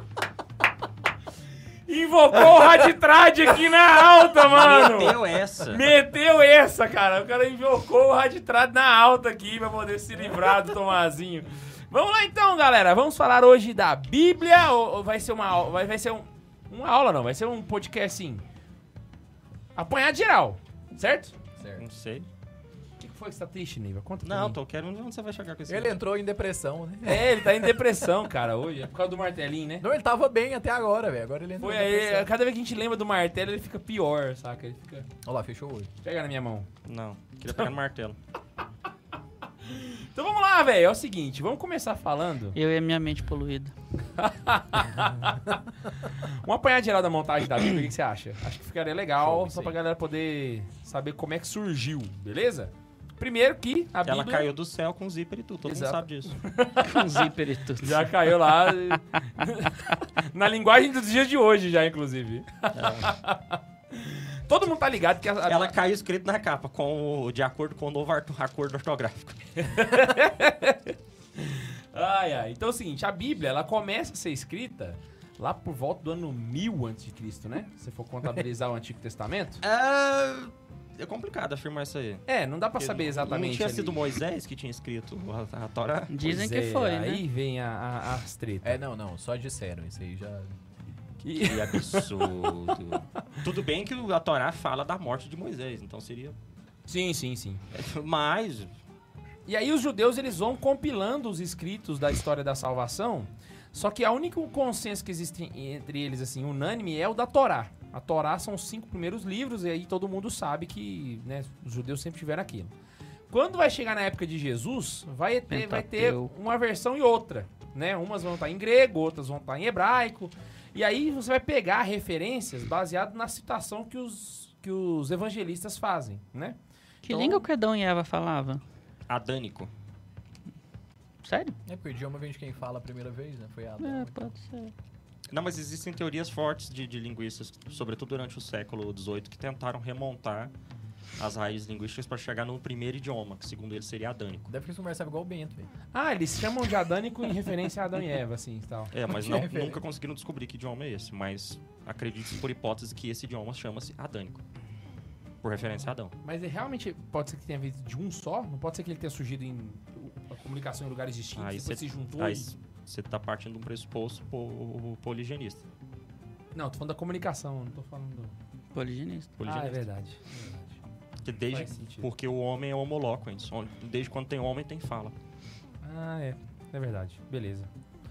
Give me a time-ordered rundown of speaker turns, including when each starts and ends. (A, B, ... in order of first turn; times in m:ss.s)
0:01.9-0:18.4 A
0:04.4-0:05.8 B
0:19.8-0:21.3 A
0:21.6-0:21.8 C
0:21.8-0:22.3 B
0:23.0-0:24.6 A
0:24.2-0:25.9 B
0:25.7-0:27.8 C
0:27.0-0:29.8 A
0:29.8-0:32.3 C
0:31.6-0:35.1 A
0:35.2-0:35.9 C
0:36.0-0:36.7 A
0:36.8-0:38.2 B
0:39.6-0:42.6 A
0:42.5-0:43.7 D
0:44.2-0:54.5 A
0:49.2-0:49.8 C
0:54.0-0:56.4 B
0:55.6-1:05.7 A
0:56.8-0:58.5 D
1:02.7-1:03.1 B
1:05.5-1:09.4 B
1:09.6-1:19.6 A
1:19.6-1:22.2 B
1:22.3-1:24.0 A
1:22.8-1:26.1 B
1:26.1-1:27.2 D
1:26.2-1:28.8 A
1:28.6-1:30.5 C
1:31.2-1:32.5 A
1:31.4-1:36.4 B
1:36.9-1:37.6 A
1:37.7-1:38.7 B
1:39.5-1:52.7 A
1:53.3-2:06.6 A
1:55.5-1:56.3 D
2:07.0-2:08.6 D
2:09.1-2:09.7 B
2:11.2-2:11.6 D
2:11.7-2:14.3 C
2:13.8-2:14.7 D
2:15.3-2:20.5 B
2:21.2-2:24.5 B
2:24.5-2:25.7 C
2:25.9-2:28.9 A
2:28.9-2:34.4 B
2:29.1-2:29.8 C
2:35.4-2:36.1 B
2:36.2-2:42.5 A
2:41.4-2:45.6 B
2:46.5-2:48.3 A
2:48.7-2:49.4 D
2:49.4-2:49.8 B
2:49.4-2:50.8 A
2:51.2-2:55.1 B
2:51.5-2:52.1 A
2:55.8-2:57.7 A